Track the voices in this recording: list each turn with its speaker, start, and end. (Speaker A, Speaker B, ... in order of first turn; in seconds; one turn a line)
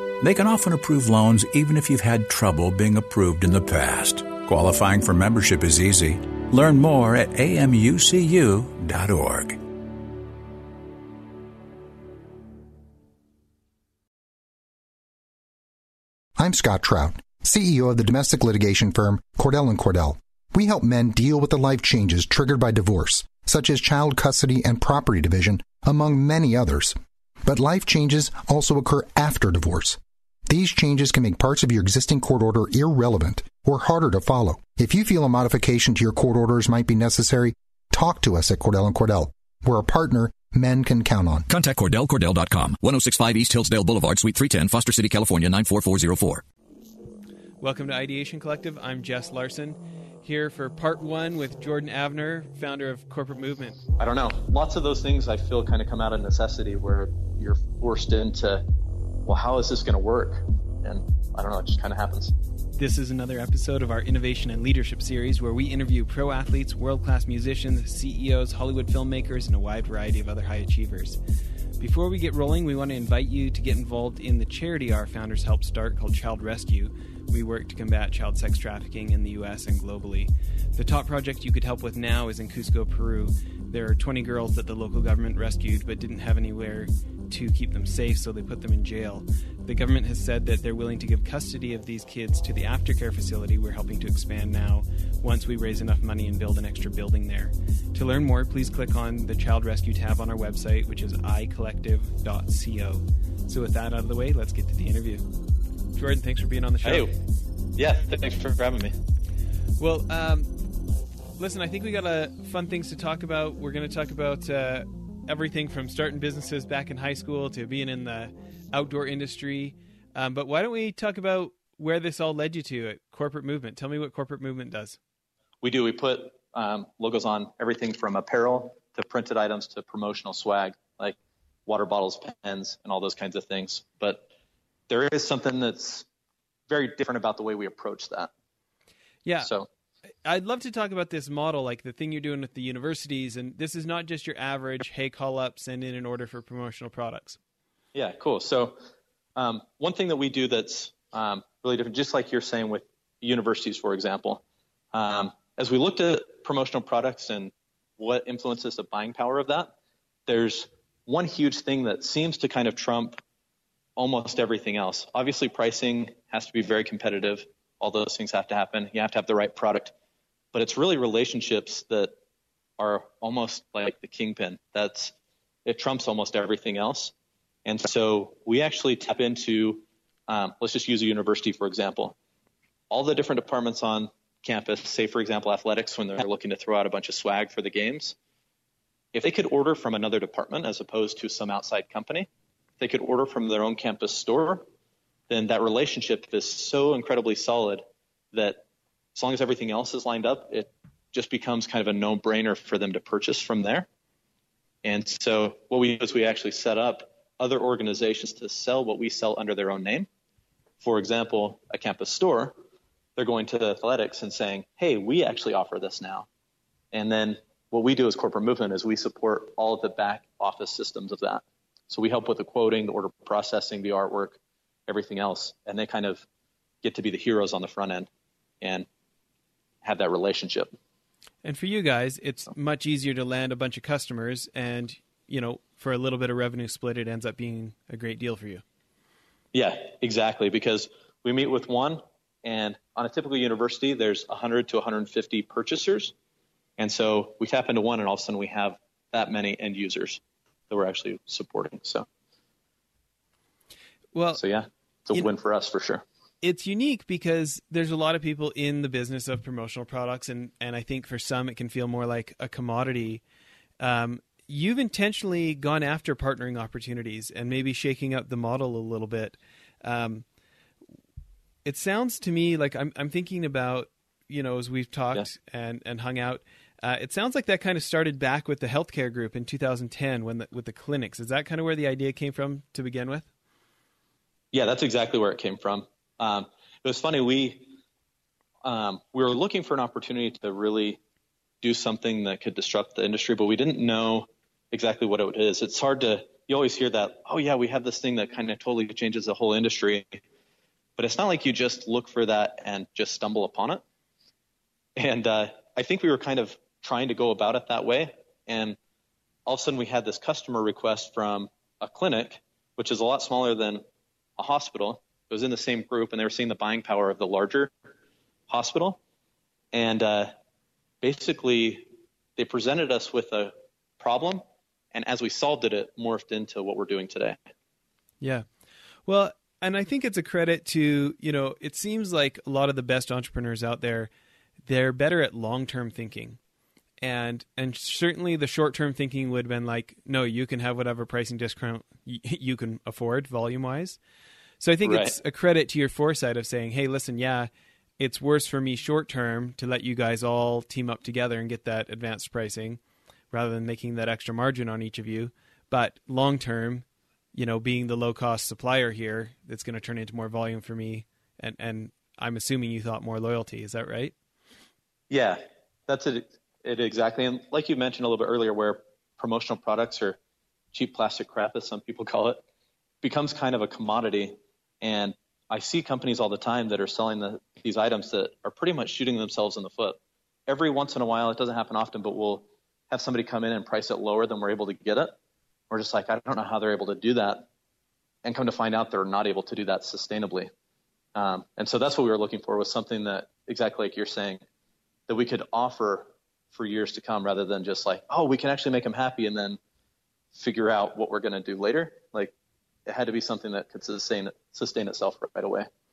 Speaker A: 0.2-9.6
Speaker B: 16.4-41.5
Speaker C: 41.5-46.4
Speaker D: 47.6-53.8
Speaker E: 54.0-58.6
Speaker E: 59.3-62.3
Speaker D: 62.8-71.2
Speaker D: 71.8-105.2
Speaker D: 106.0-107.1
Speaker E: 106.8-107.1
Speaker E: 107.8-109.0
Speaker D: 109.8-110.6
Speaker D: 111.4-125.0
Speaker E: 125.6-134.3
Speaker E: 134.9-136.1
Speaker E: 136.7-138.3
Speaker D: 139.2-139.5
Speaker E: 139.4-139.7
Speaker D: 140.2-147.4
Speaker E: 147.9-148.8
Speaker E: 149.4-154.4
Speaker E: 154.9-159.7
Speaker E: 160.3-163.2
Speaker E: 164.0-169.9
Speaker E: 170.5-172.1
Speaker E: 172.8-175.1
Speaker E: 175.7-177.1
Speaker E: 177.7-182.2
Speaker E: 182.9-188.2
Speaker E: 189.1-192.3
Speaker E: 192.8-194.7
Speaker E: 195.3-198.6
Speaker E: 199.2-203.9
Speaker E: 204.8-210.1
Speaker E: 210.8-212.6
Speaker E: 213.2-216.3
Speaker E: 216.9-226.2
Speaker E: 226.8-228.1
Speaker E: 228.6-228.9
Speaker E: 229.8-230.7
Speaker D: 231.4-238.6
Speaker E: 239.5-246.1
Speaker E: 246.8-252.1
Speaker D: 254.1-254.4
Speaker E: 254.3-256.0
Speaker D: 256.4-263.2
Speaker D: 263.8-270.2
Speaker D: 271.6-283.3
Speaker E: 284.5-287.7
Speaker E: 288.6-291.0
Speaker E: 291.6-300.1
Speaker E: 301.0-303.8
Speaker E: 305.0-308.8
Speaker E: 309.5-313.8
Speaker E: 314.4-317.7
Speaker E: 318.5-319.0
Speaker E: 319.7-320.3
Speaker E: 321.0-327.4
Speaker D: 328.2-328.5
Speaker D: 329.1-334.1
Speaker D: 334.7-336.4
Speaker D: 337.0-344.0
Speaker D: 344.6-352.8
Speaker E: 344.8-345.2
Speaker D: 353.3-364.1
Speaker E: 365.1-370.2
Speaker E: 370.7-372.4
Speaker E: 373.0-385.1
Speaker E: 385.7-387.5
Speaker E: 388.2-390.5
Speaker E: 391.1-394.4
Speaker E: 395.1-399.6
Speaker E: 400.3-402.3
Speaker E: 402.9-405.7